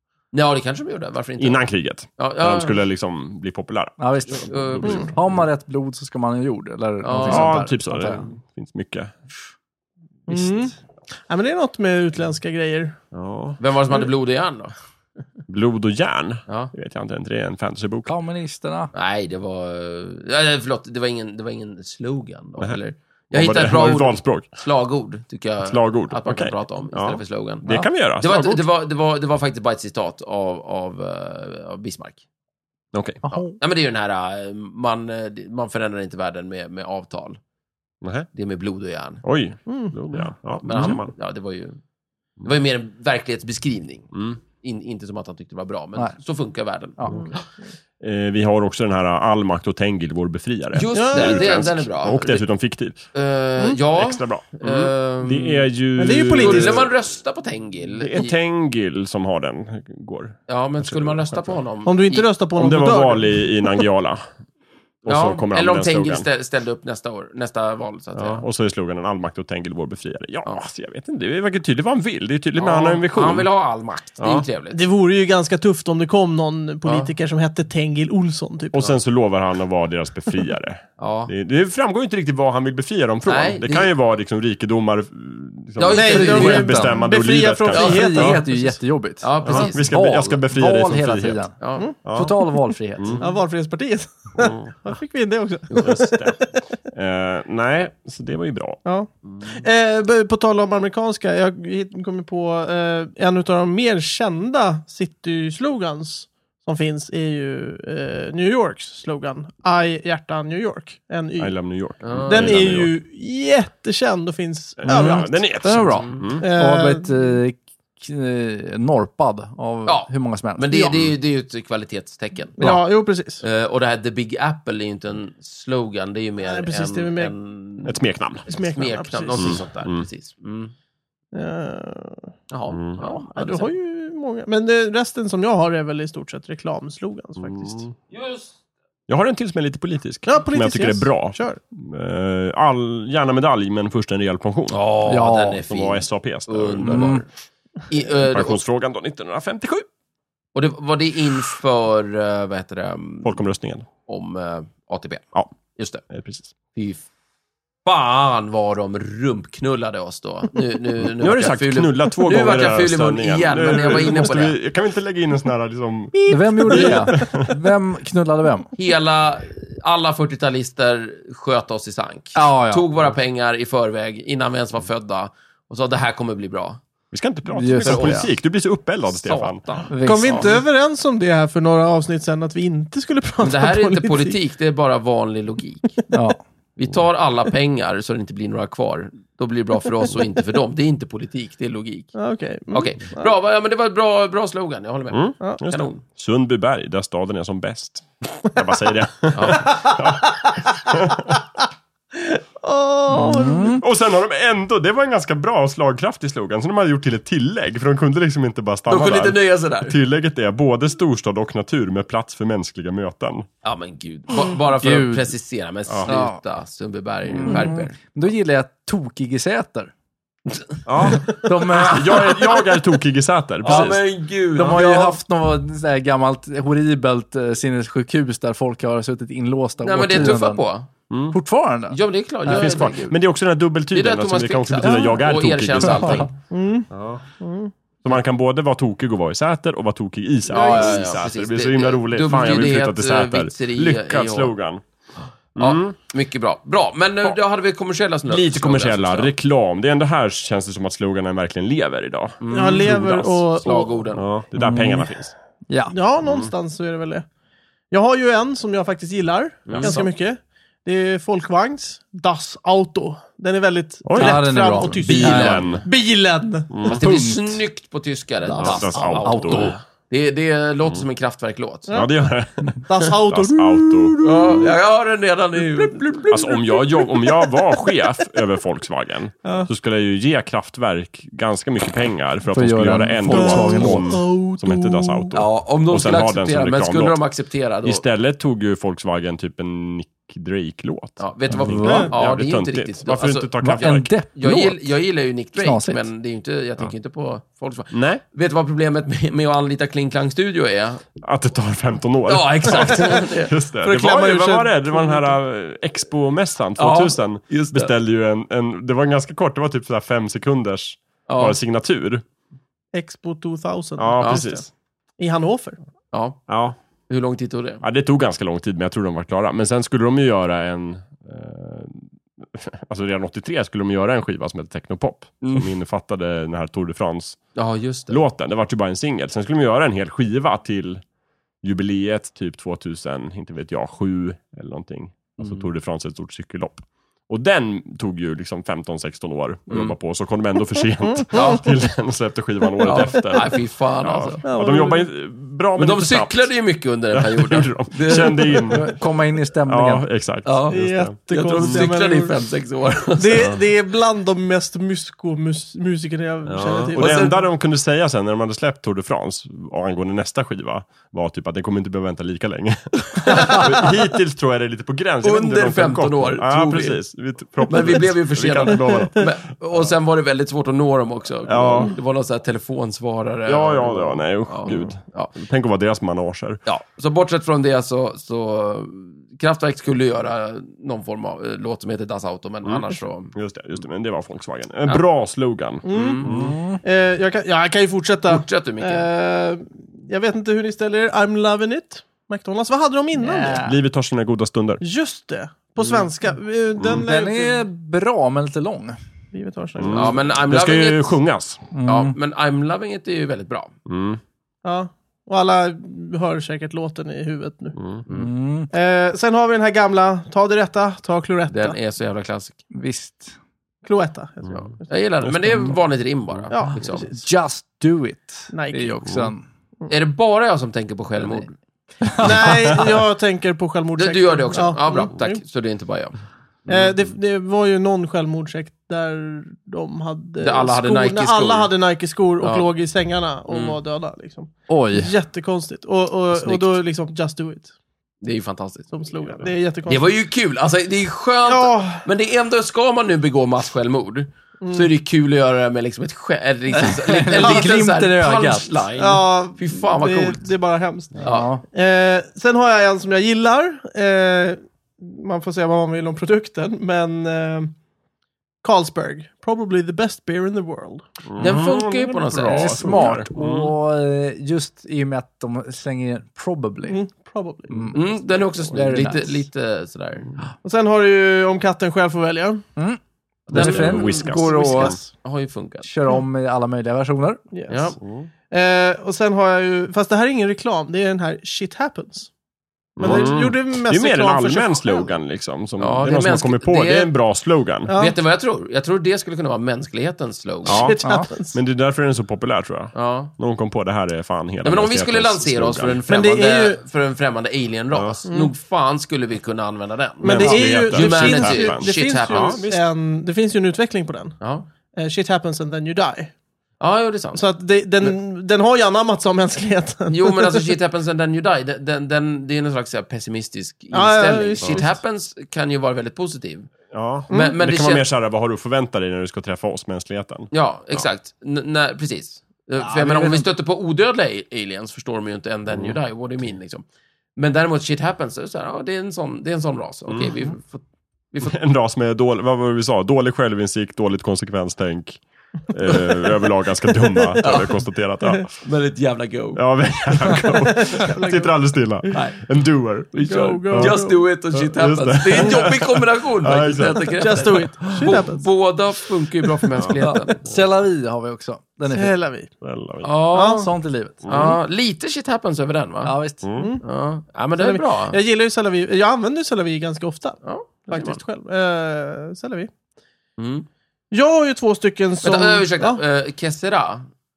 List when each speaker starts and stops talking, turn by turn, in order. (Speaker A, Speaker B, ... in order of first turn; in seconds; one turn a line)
Speaker A: 0.3-1.6
Speaker B: 1.4-5.3
Speaker A: 2.2-2.8
Speaker C: 4.0-8.2
Speaker A: 4.3-5.1
Speaker A: 7.0-7.6
Speaker B: 7.2-9.1
Speaker D: 10.3-10.7
Speaker C: 10.3-10.7
Speaker D: 11.3-13.0
Speaker B: 13.1-13.6
Speaker A: 13.6-14.7
Speaker B: 15.5-18.1
Speaker C: 18.1-18.9
Speaker A: 18.9-32.2
Speaker B: 23.3-24.5
Speaker B: 25.6-28.6
Speaker B: 32.9-33.2
Speaker C: 33.2-33.5
Speaker A: 33.3-37.4
Speaker B: 38.0-38.3
Speaker A: 38.3-39.2
Speaker B: 39.2-41.1
Speaker D: 39.7-39.9
Speaker A: 40.6-41.8
Speaker A: 42.4-47.4
Speaker B: 44.1-44.4
Speaker B: 48.0-53.1
Speaker A: 50.7-52.4
Speaker D: 50.9-51.6
Speaker A: 53.1-55.6
Speaker B: 53.9-56.9
Speaker D: 56.0-56.9
Speaker A: 56.4-58.3
Speaker B: 58.0-61.6
Speaker A: 60.5-62.3
Speaker D: 61.8-63.8
Speaker B: 62.5-64.2
Speaker B: 65.0-66.2
Speaker A: 65.0-68.4
Speaker B: 68.1-73.5
Speaker A: 72.6-74.8
Speaker B: 74.2-74.4
Speaker D: 74.7-78.9
Speaker A: 76.8-77.1
Speaker B: 78.7-88.4
Speaker A: 81.0-81.3
Speaker A: 83.2-83.9
Speaker A: 85.8-86.8
Speaker D: 85.9-88.7
Speaker A: 87.7-88.0
Speaker C: 87.7-93.2
Speaker A: 89.2-89.9
Speaker B: 89.4-91.5
Speaker A: 91.6-91.9
Speaker B: 92.0-92.3
Speaker B: 93.0-93.2
Speaker D: 93.2-96.3
Speaker B: 94.4-94.7
Speaker B: 95.8-98.8
Speaker D: 98.8-111.5
Speaker B: 111.4-112.9
Speaker A: 112.0-112.6
Speaker D: 112.2-115.4
Speaker B: 114.8-116.5
Speaker C: 114.9-121.1
Speaker A: 115.9-116.3
Speaker D: 116.4-117.3
Speaker A: 119.8-122.8
Speaker D: 122.6-123.4
Speaker A: 123.4-130.7
Speaker D: 126.4-127.3
Speaker B: 127.8-128.4
Speaker D: 128.5-129.6
Speaker B: 129.4-130.1
Speaker D: 131.3-132.3
Speaker A: 132.5-133.7
Speaker B: 132.7-133.0
Speaker D: 133.0-137.8
Speaker B: 137.4-137.9
Speaker A: 138.1-138.6
Speaker B: 139.1-144.8
Speaker D: 140.2-141.6
Speaker A: 144.7-147.3
Speaker C: 145.1-145.6
Speaker B: 145.7-147.2
Speaker C: 146.8-147.2
Speaker A: 147.9-148.6
Speaker B: 148.2-149.8
Speaker A: 150.5-153.4
Speaker B: 153.2-153.8
Speaker A: 154.1-156.0
Speaker B: 156.1-156.5
Speaker A: 156.7-157.1
Speaker A: 157.8-164.6
Speaker B: 161.1-167.5
Speaker D: 166.1-167.2
Speaker C: 166.3-168.7
Speaker A: 168.8-176.8
Speaker C: 172.3-172.9
Speaker B: 177.1-179.7
Speaker C: 177.5-178.3
Speaker A: 177.8-178.3
Speaker A: 179.1-180.5
Speaker C: 179.9-180.6
Speaker D: 180.0-184.4
Speaker A: 183.4-186.0
Speaker C: 186.1-186.4
Speaker A: 186.8-192.1
Speaker D: 192.2-193.3
Speaker A: 192.7-196.0
Speaker B: 195.1-201.3
Speaker A: 199.3-199.6
Speaker D: 199.5-200.3
Speaker D: 202.2-203.8
Speaker C: 203.1-203.8
Speaker B: 203.1-213.5
Speaker A: 208.9-209.9
Speaker A: 213.6-217.9
Speaker C: 214.7-215.3
Speaker B: 215.9-216.2
Speaker C: 216.1-216.4
Speaker C: 217.3-219.9
Speaker B: 220.8-224.0
Speaker C: 221.0-222.5
Speaker A: 223.6-225.2
Speaker C: 223.7-224.0
Speaker C: 224.5-230.6
Speaker A: 229.8-230.9
Speaker B: 231.1-231.4
Speaker C: 231.3-232.7
Speaker A: 231.9-233.2
Speaker B: 232.5-236.3
Speaker A: 233.9-236.3
Speaker C: 235.8-236.3
Speaker D: 236.5-236.9
Speaker B: 236.9-237.2
Speaker D: 237.4-237.7
Speaker B: 238.0-244.8
Speaker A: 240.5-244.5
Speaker C: 240.5-241.1
Speaker B: 245.5-245.9
Speaker A: 245.6-249.3
Speaker B: 248.3-255.3
Speaker A: 252.4-252.9
Speaker D: 252.5-253.9
Speaker A: 253.6-254.2
Speaker C: 254.6-255.1
Speaker C: 255.7-255.9
Speaker D: 255.9-257.2
Speaker B: 256.2-256.5
Speaker D: 257.9-266.8
Speaker A: 259.7-260.1
Speaker B: 264.0-265.8
Speaker C: 264.1-265.7
Speaker A: 265.1-265.7
Speaker B: 266.7-267.0
Speaker A: 266.8-271.9
Speaker C: 266.9-267.6
Speaker D: 268.5-269.0
Speaker B: 268.6-269.7
Speaker C: 269.1-269.8
Speaker B: 271.9-274.7
Speaker D: 272.9-274.6
Speaker A: 274.2-276.4
Speaker D: 275.8-277.4
Speaker B: 276.3-287.2
Speaker C: 282.5-284.2
Speaker D: 283.3-285.3
Speaker A: 285.3-288.0
Speaker B: 287.8-294.1
Speaker A: 291.2-301.0
Speaker C: 291.5-292.1
Speaker D: 291.8-292.1
Speaker C: 293.6-294.9
Speaker C: 295.5-296.1
Speaker B: 297.9-298.2
Speaker B: 301.2-312.2
Speaker A: 302.3-303.5
Speaker D: 302.7-303.2
Speaker D: 303.8-305.3
Speaker A: 306.8-307.9
Speaker A: 311.3-311.6
Speaker D: 312.9-314.7
Speaker B: 314.0-314.7
Speaker A: 314.2-314.5
Speaker D: 315.2-315.8
Speaker A: 316.1-316.4
Speaker B: 316.5-316.8
Speaker A: 317.1-317.8
Speaker B: 317.8-327.4
Speaker A: 325.4-325.7
Speaker A: 327.5-328.2
Speaker B: 328.1-331.0
Speaker B: 331.6-346.5
Speaker A: 335.4-335.6
Speaker A: 339.7-339.9
Speaker A: 341.3-341.6
Speaker A: 342.8-344.4
Speaker D: 344.4-345.1
Speaker A: 345.8-348.8
Speaker B: 347.1-349.0
Speaker C: 348.7-350.1
Speaker B: 349.6-351.9
Speaker A: 350.4-353.5
Speaker D: 350.7-352.4
Speaker D: 353.2-357.4
Speaker B: 356.4-369.9
Speaker A: 356.9-357.4
Speaker A: 363.2-363.9
Speaker A: 365.2-367.0
Speaker A: 367.6-375.3
Speaker B: 371.4-371.9
Speaker B: 373.5-376.6
Speaker A: 376.6-383.3
Speaker B: 382.6-386.6
Speaker D: 385.8-386.2
Speaker A: 385.9-386.3
Speaker C: 386.2-386.8
Speaker D: 386.8-393.6
Speaker A: 388.3-389.1
Speaker C: 393.1-393.8
Speaker B: 393.6-394.8
Speaker D: 394.8-397.6
Speaker A: 395.8-396.1
Speaker C: 396.9-398.9
Speaker D: 399.3-400.2
Speaker B: 399.8-401.6
Speaker A: 399.9-401.1
Speaker C: 401.7-402.1
Speaker A: 401.8-403.7
Speaker B: 403.9-404.2
Speaker D: 404.6-407.8
Speaker B: 407.8-408.0
Speaker C: 408.1-408.7
Speaker D: 408.7-411.8
Speaker A: 411.5-412.6
Speaker C: 412.7-413.4
Speaker D: 413.8-414.9
Speaker A: 414.5-417.1
Speaker B: 415.2-415.7
Speaker D: 416.5-417.2
Speaker C: 416.8-419.4
Speaker D: 418.5-419.0
Speaker A: 419.9-421.6
Speaker C: 422.0-422.8
Speaker D: 422.2-425.4
Speaker A: 424.0-426.9
Speaker D: 426.7-437.7
Speaker A: 430.4-431.7
Speaker A: 432.4-432.7
Speaker A: 433.5-433.8
Speaker C: 434.7-435.1
Speaker C: 436.4-436.7
Speaker A: 438.2-439.0
Speaker D: 438.9-440.1
Speaker A: 439.9-450.5
Speaker D: 441.5-442.1
Speaker D: 444.6-444.9
Speaker C: 446.7-448.9
Speaker D: 447.4-447.7
Speaker D: 449.0-457.7
Speaker A: 451.2-451.5
Speaker C: 451.2-451.6
Speaker D: 458.6-461.0
Speaker B: 461.3-463.7
Speaker A: 461.4-463.0
Speaker C: 462.5-467.0
Speaker D: 466.9-468.1
Speaker C: 467.7-468.0
Speaker A: 467.9-470.4
Speaker C: 468.7-469.4
Speaker D: 470.6-472.6
Speaker A: 473.5-475.9
Speaker C: 473.5-475.0
Speaker B: 473.5-475.0
Speaker D: 474.3-475.0
Speaker C: 475.8-477.4
Speaker D: 477.5-477.9
Speaker A: 477.7-478.0
Speaker B: 478.0-478.3
Speaker D: 478.5-482.3
Speaker B: 483.0-487.9
Speaker D: 483.0-485.1
Speaker A: 485.8-487.1
Speaker D: 487.9-488.2
Speaker A: 487.9-490.9
Speaker B: 490.6-496.0
Speaker D: 490.7-491.6
Speaker C: 491.0-491.3
Speaker A: 492.9-493.3
Speaker A: 494.6-502.6
Speaker D: 496.1-496.8
Speaker B: 497.9-498.2
Speaker D: 498.3-498.5
Speaker D: 500.2-504.4
Speaker B: 500.2-502.8
Speaker A: 504.4-504.7
Speaker D: 504.9-506.3
Speaker A: 506.8-507.4
Speaker D: 507.3-510.6
Speaker A: 510.1-516.7
Speaker D: 513.9-515.0
Speaker B: 516.9-521.0
Speaker A: 517.3-518.0
Speaker A: 520.5-526.8
Speaker C: 522.8-523.5
Speaker B: 525.7-526.0
Speaker A: 527.4-531.5
Speaker B: 530.1-530.4
Speaker B: 531.4-538.6
Speaker D: 537.2-537.5
Speaker A: 537.4-537.8
Speaker A: 538.6-539.6
Speaker B: 539.5-547.6
Speaker D: 540.3-541.5
Speaker A: 542.1-542.4
Speaker A: 543.1-550.4
Speaker D: 543.2-544.2
Speaker D: 547.2-548.5
Speaker C: 550.0-552.1
Speaker D: 551.9-552.5
Speaker B: 552.6-553.1
Speaker A: 553.0-553.7
Speaker D: 553.3-553.7
Speaker C: 553.4-554.2
Speaker B: 554.2-554.6
Speaker A: 554.2-556.1
Speaker C: 556.0-556.5
Speaker B: 556.4-556.7
Speaker D: 556.6-556.8
Speaker A: 556.8-558.2
Speaker D: 557.6-562.7
Speaker A: 560.4-561.2
Speaker A: 563.4-563.6
Speaker D: 564.1-566.0
Speaker A: 565.2-567.1